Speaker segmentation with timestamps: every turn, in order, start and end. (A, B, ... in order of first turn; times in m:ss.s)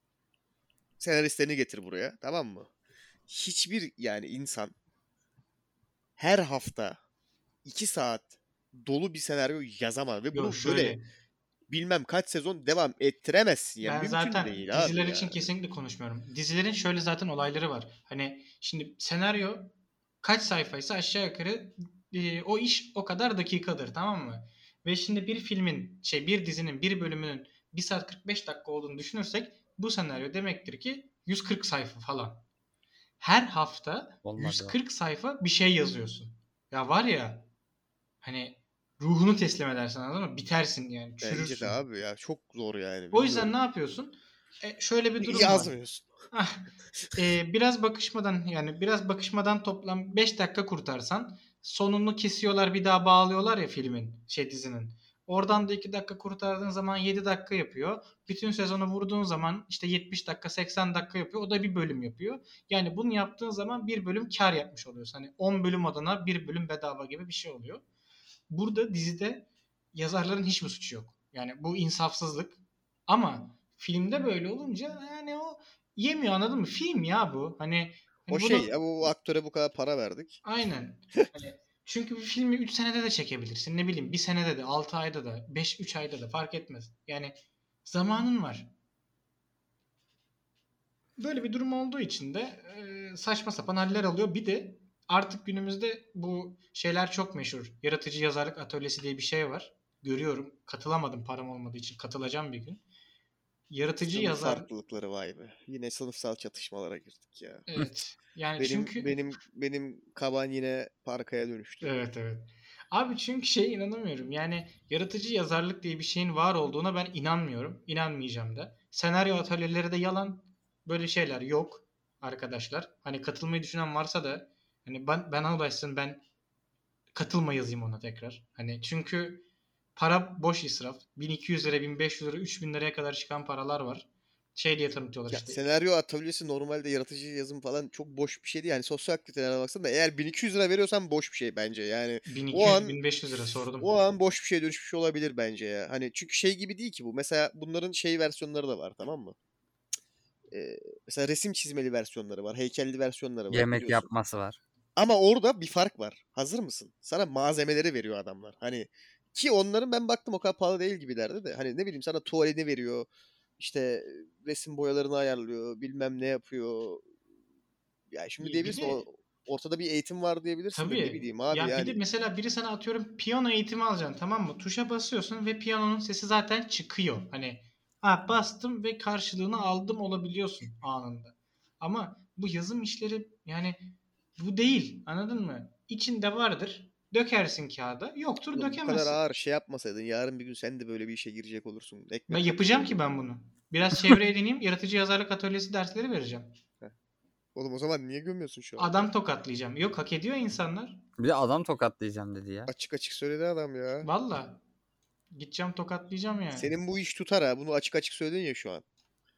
0:01.0-0:02.7 A
0:03.3-0:04.7 A
0:06.2-0:07.0 A
0:07.6-0:11.0 A
0:10.3-0:11.0 B
0:11.7-0:15.5 A
0:13.8-0:32.4 B
0:33.2-0:37.5 B
0:34.2-0:34.7 C
0:38.2-0:41.8 B
0:41.2-0:43.5 A
0:43.1-0:45.7 B
0:45.2-0:46.1 A
0:46.3-1:07.8 B
1:08.5-1:18.7 B
1:18.3-1:20.4 A
1:20.4-1:28.7 B
1:31.2-1:42.8 B
1:43.7-1:44.7 B
1:44.1-1:47.7 A
1:47.7-1:49.1 B
1:48.6-1:51.9 A
1:51.8-2:06.2 B
2:07.1-2:09.4 B
2:10.0-2:15.6 B
2:15.3-2:23.0 A
2:22.3-2:23.9 B
2:23.8-2:29.3 A
2:30.5-2:34.1 A
2:33.5-2:34.6 C
2:35.0-2:43.1 A
2:43.6-2:47.1 A
2:48.1-2:52.0 A
2:48.4-2:49.0 B
2:50.7-3:09.2 B
3:08.5-3:13.0 A
3:12.3-3:16.5 B
3:17.5-3:19.1 A
3:18.8-3:21.0 B
3:21.2-3:22.7 C
3:22.7-3:24.1 A
3:24.0-3:24.6 B
3:25.3-3:26.7 B
3:26.5-3:28.8 A